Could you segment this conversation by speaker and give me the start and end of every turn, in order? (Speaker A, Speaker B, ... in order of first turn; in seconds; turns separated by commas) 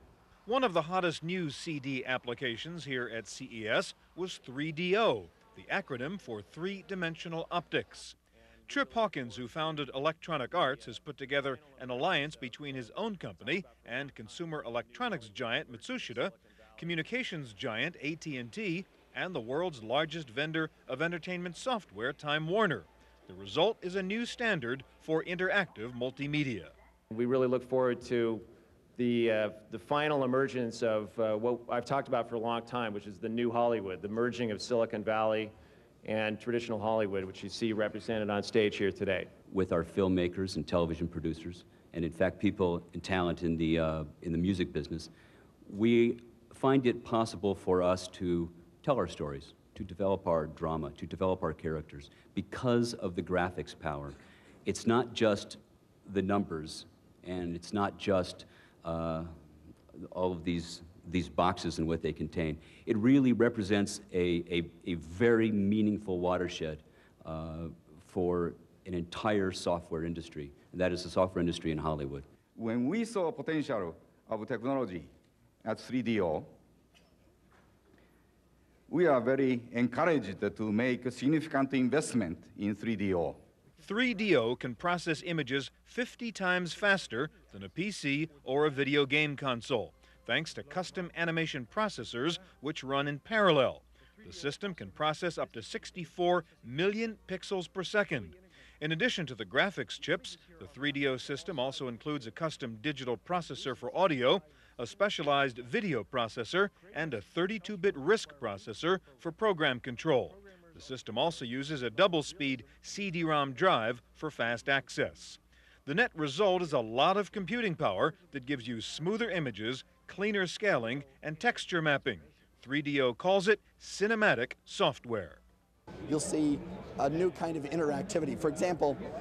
Speaker A: 0.5-26.8, Speaker B: 27.1-39.3, Speaker C: 39.5-45.1, Speaker C: 45.6-59.4, Speaker C: 59.9-72.3, Speaker D: 72.5-75.1, Speaker D: 75.6-76.5, Speaker D: 78.9-83.4, Speaker A: 83.8-125.4, Speaker E: 126.1-129.0